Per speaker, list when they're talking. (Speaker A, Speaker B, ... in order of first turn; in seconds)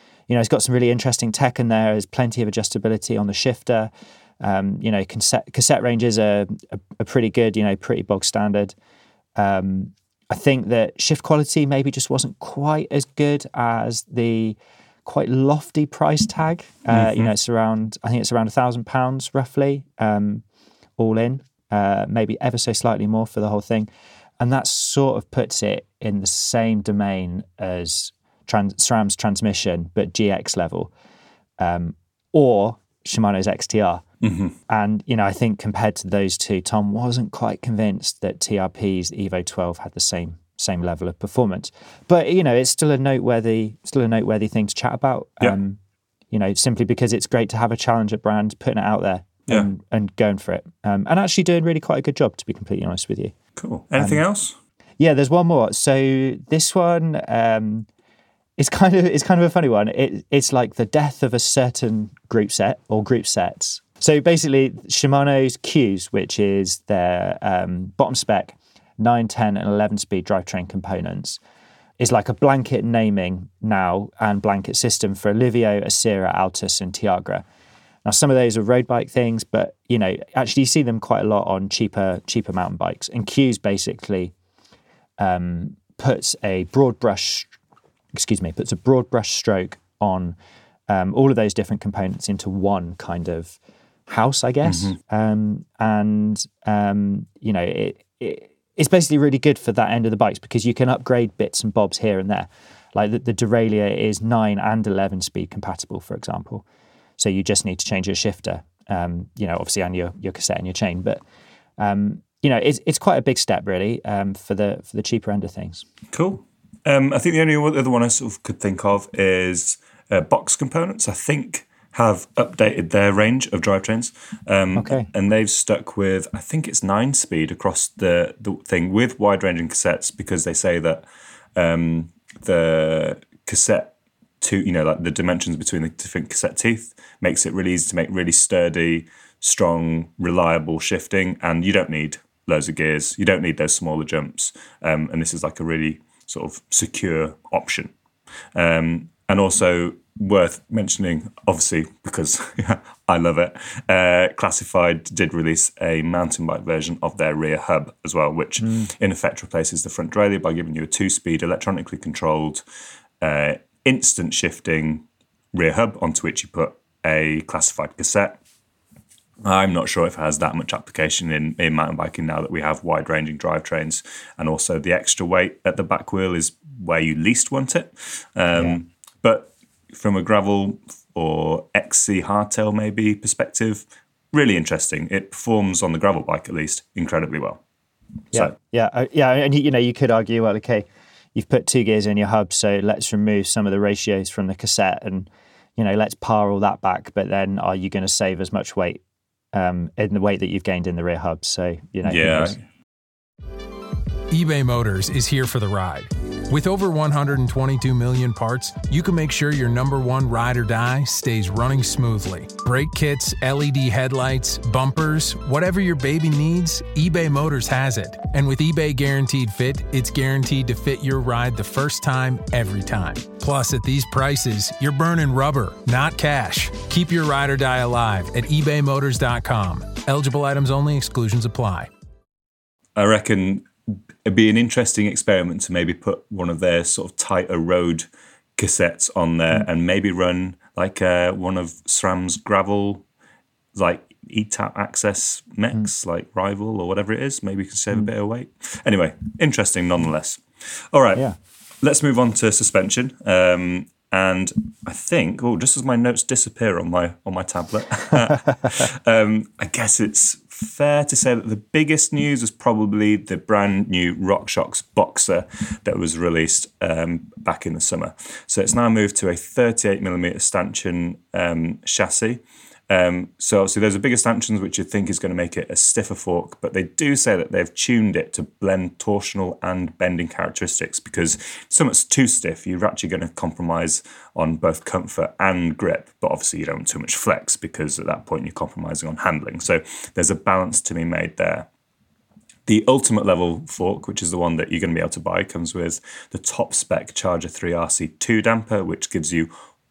Speaker A: 0.3-3.9, 4.4-8.7, 9.3-20.4, 21.0-23.9, 24.4-30.9, 31.6-34.0, 34.7-45.8, 46.3-53.3, 54.0-54.2, 55.0-57.9, 58.6-71.4, 72.0-77.4, 78.0-84.3, 85.2-87.5, 88.1-90.3, 90.9-106.6, 107.2-111.2, 111.8-115.8, 124.7-125.1, 158.6-158.9, 188.3-199.0, 199.5-202.6
Speaker B: 16.9-17.3, 34.2-34.5, 53.5-54.5, 94.6-95.0, 116.1-131.0, 131.6-147.9, 148.5-162.6, 163.2-168.4, 169.4-187.6, 202.0-202.6, 232.9-233.7, 234.2-243.0, 243.7-251.3, 251.8-291.7, 292.6-299.5
Speaker C: 204.3-231.9